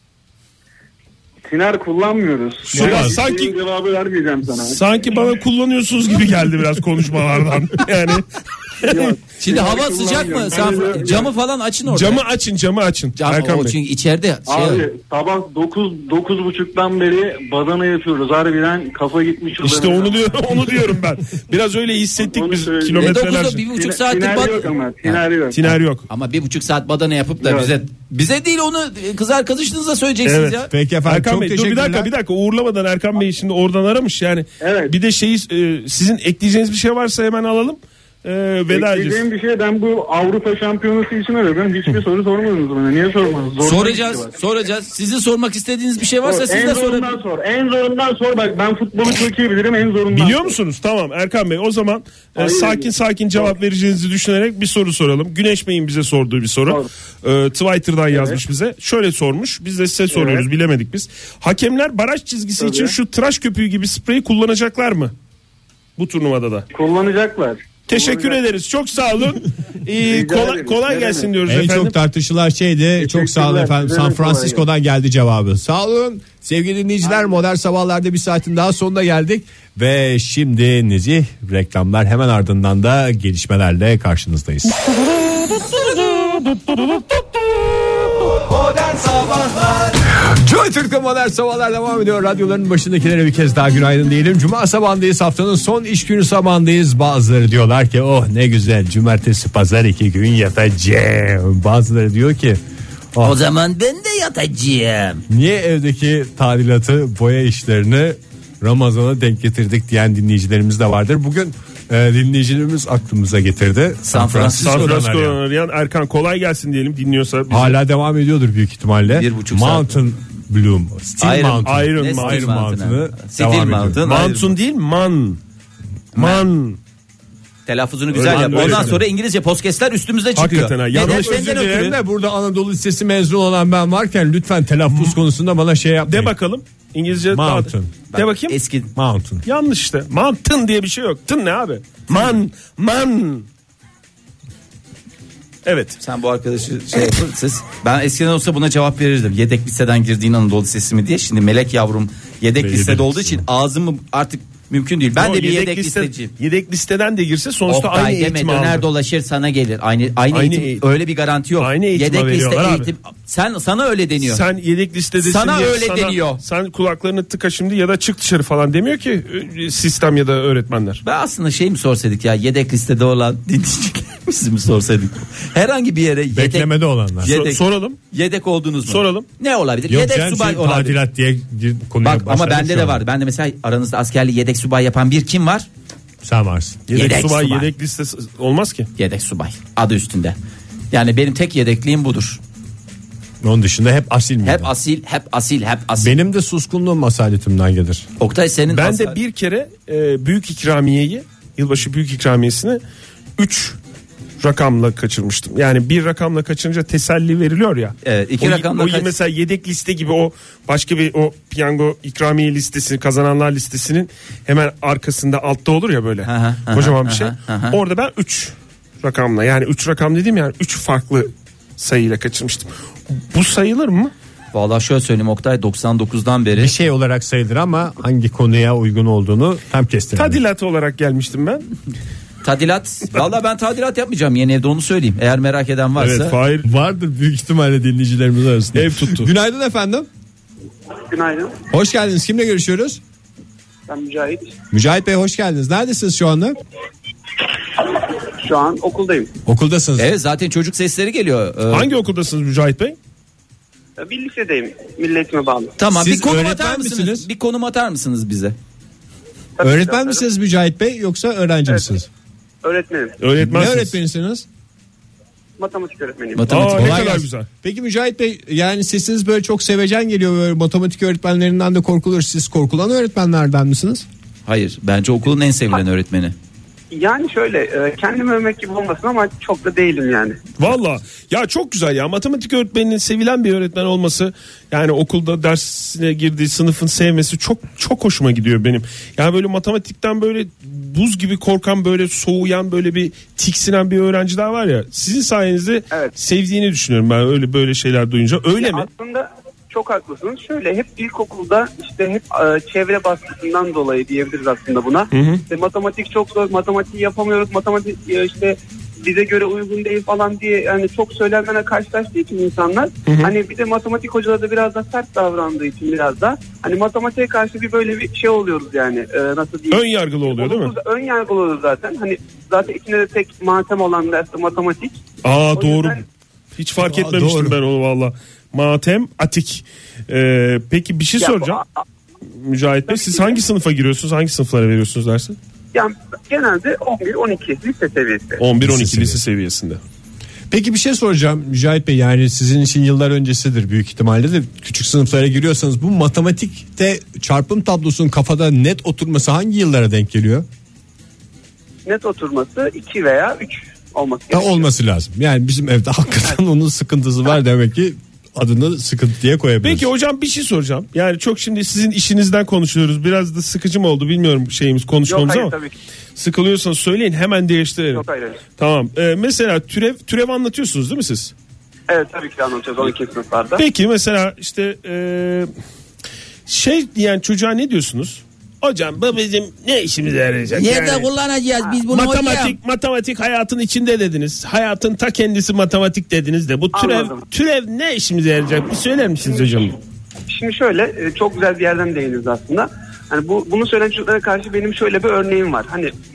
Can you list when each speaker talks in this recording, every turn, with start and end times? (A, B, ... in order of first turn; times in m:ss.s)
0:01.5-0:04.8 A
0:02.7-0:03.2 B
0:02.7-0:03.6 C
0:04.7-0:08.2 C
0:08.8-0:09.2 C
0:08.8-0:11.3 A
0:09.4-0:12.2 D
0:11.9-0:13.7 C
0:13.2-0:14.9 D
0:14.5-0:20.7 A
0:19.6-0:23.6 C
0:22.2-0:25.6 A
0:23.0-0:25.2 D
0:25.5-0:26.0 C
0:26.1-0:30.7 D
0:27.4-0:27.7 A
0:30.2-0:39.2 C
0:30.7-0:32.1 B
0:34.6-0:34.9 A
0:38.7-0:44.3 A
0:43.6-0:47.1 D
0:46.2-0:50.6 A
0:50.1-1:05.1 C
0:52.4-0:53.5 A
0:58.1-0:58.4 A
1:00.1-1:00.4 A
1:02.6-1:02.9 A
1:06.0-1:06.6 C
1:06.7-1:08.4 A
1:07.9-1:11.9 C
1:10.0-1:11.3 A
1:11.4-1:28.3 B
1:13.0-1:14.6 A
1:30.1-1:42.6 B
1:43.2-1:45.2 D
1:45.3-1:55.4 B
1:54.1-1:54.9 D
1:54.6-1:57.8 C
1:57.5-2:04.0 B
1:59.0-2:00.0 D
2:01.2-2:04.5 D
2:01.6-2:02.5 C
2:04.0-2:05.4 C
2:06.1-2:06.5 D
2:06.2-2:06.8 C
2:07.7-2:11.9 D
2:08.1-2:09.0 C
2:08.3-2:09.0 B
2:10.4-2:11.9 C
2:11.0-2:16.3 B
2:14.9-2:15.2 C
2:16.0-2:18.6 C
2:17.3-2:17.9 B
2:18.1-2:18.9 D
2:19.0-2:19.4 B
2:19.4-2:23.4 C
2:25.6-2:26.0 C
2:26.0-2:36.3 D
2:32.6-2:33.4 B
2:35.2-2:38.8 C
2:37.7-2:44.4 D
2:40.3-2:40.8 C
2:41.6-2:42.9 C
2:44.2-2:51.0 C
2:45.2-2:46.4 D
2:51.0-3:01.0 D
2:56.3-2:57.3 B
2:57.2-2:58.0 C
2:58.8-2:59.3 C
2:59.9-3:03.0 B
3:02.0-3:05.7 D
3:06.2-3:06.8 B
3:06.9-3:08.9 C
3:06.9-3:07.7 D
3:09.0-3:10.4 D
3:10.9-3:12.4 D
3:13.4-3:14.7 B
3:14.4-3:16.1 D
3:16.0-3:18.0 B
3:18.2-3:19.2 D
3:18.7-3:22.8 C
3:23.4-3:23.8 C
3:24.4-3:44.1 C
3:28.0-3:29.1 D
3:36.2-3:37.8 D
3:44.5-3:46.8 D
3:46.6-3:50.4 B
3:50.2-3:51.6 C
3:52.4-3:56.4 D
3:56.0-3:56.7 C
3:56.6-4:00.1 B
3:58.7-3:59.3 C
4:01.1-4:01.6 E
4:01.7-4:03.0 B
4:03.9-4:04.5 E
4:04.7-4:06.6 B
4:08.4-4:09.3 E
4:09.4-4:10.1 B
4:10.0-4:11.9 D
4:11.7-4:13.0 C
4:14.0-4:15.7 E
4:15.8-4:18.6 D
4:15.9-4:17.3 B
4:19.6-4:20.2 E
4:19.6-4:22.1 B
4:22.6-4:23.2 E
4:23.2-4:23.9 C
4:23.4-4:24.4 B
4:25.6-4:26.5 E
4:26.3-4:27.0 D
4:26.5-4:27.5 C
4:26.7-4:34.0 B
4:34.4-4:36.3 D
4:36.9-4:40.4 E
4:40.6-4:58.9 C
4:58.6-5:25.0 E
5:05.1-5:05.4 C
5:13.0-5:13.3 C
5:19.7-5:20.7 C
5:25.2-5:26.0 C
5:25.5-5:26.0 E
5:26.6-5:31.6 C
5:26.8-5:27.6 B
5:31.2-5:31.8 E
5:32.4-5:35.4 C
5:32.9-5:33.4 E
5:35.7-5:38.4 E
5:38.4-5:39.8 C
5:38.6-5:39.2 B
5:40.5-5:50.4 B
5:51.8-5:54.7 E
5:54.3-5:59.9 B
5:59.6-6:05.5 C
6:05.1-6:05.8 E
6:06.2-6:08.0 C
6:07.9-6:08.4 E
6:08.6-6:11.3 C
6:11.9-6:13.6 E
6:13.6-6:15.5 C
6:16.5-6:21.1 C
6:20.5-6:22.6 D
6:21.9-6:29.8 C
6:26.7-6:27.2 E
6:30.3-6:35.9 E